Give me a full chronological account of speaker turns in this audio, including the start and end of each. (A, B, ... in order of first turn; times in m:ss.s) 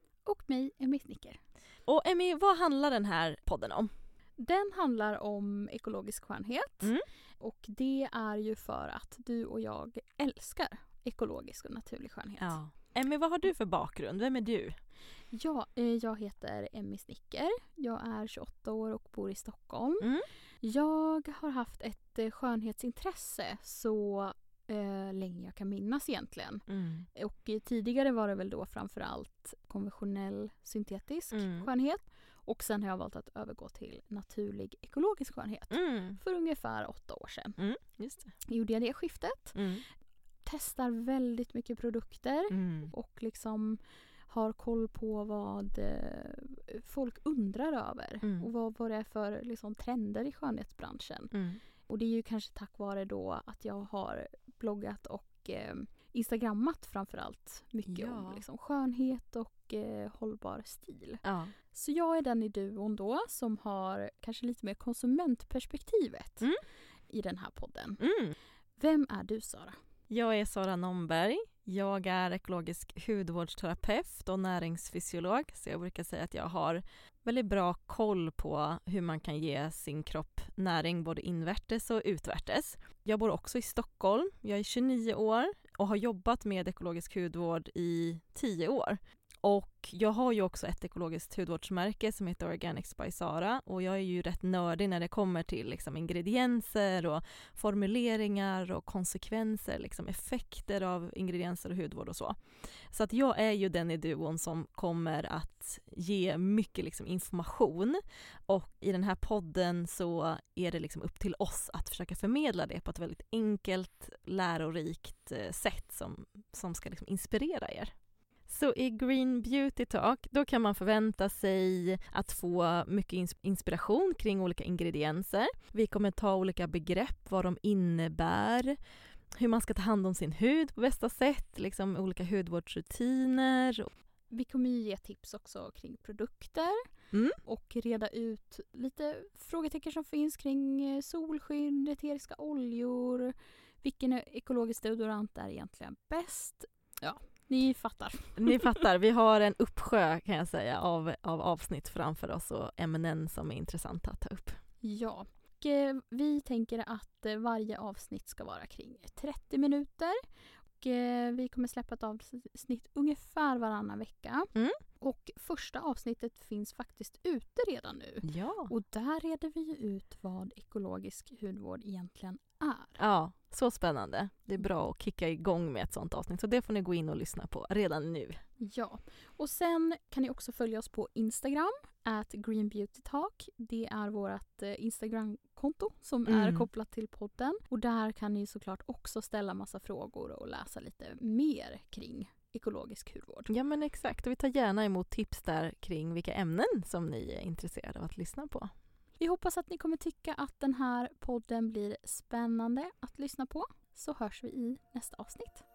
0:00.2-0:01.4 A
0:01.8-0:03.9 B
0:04.4-0:12.6 A
0:12.4-0:14.8 B
0:15.3-0:20.1 A
0:20.6-0:37.6 A
0:26.7-0:27.0 B
0:31.3-0:31.7 B
0:35.7-0:36.2 B
0:37.6-0:38.3 B
0:38.4-0:39.6 A
0:39.6-0:39.8 B
0:40.4-0:51.3 A
0:42.5-0:42.9 B
0:51.3-0:51.6 B
0:51.8-1:06.5 A
0:57.8-0:58.4 B
1:01.2-1:01.5 B
1:07.1-1:08.0 A
1:08.0-1:08.3 B
1:08.8-1:09.8 A
1:10.1-1:57.9 B
1:58.5-2:08.8 B
2:09.4-2:13.9 B
2:14.3-2:16.8 A
2:17.1-2:17.4 B
2:17.4-2:28.7 A
2:28.4-2:34.6 B
2:34.8-2:40.2 A
2:40.8-2:53.0 A
2:48.2-2:48.7 B
2:53.0-2:58.4 B
2:58.6-3:13.5 A
3:06.3-3:06.7 B
3:13.5-3:18.7 B
3:19.2-3:25.7 A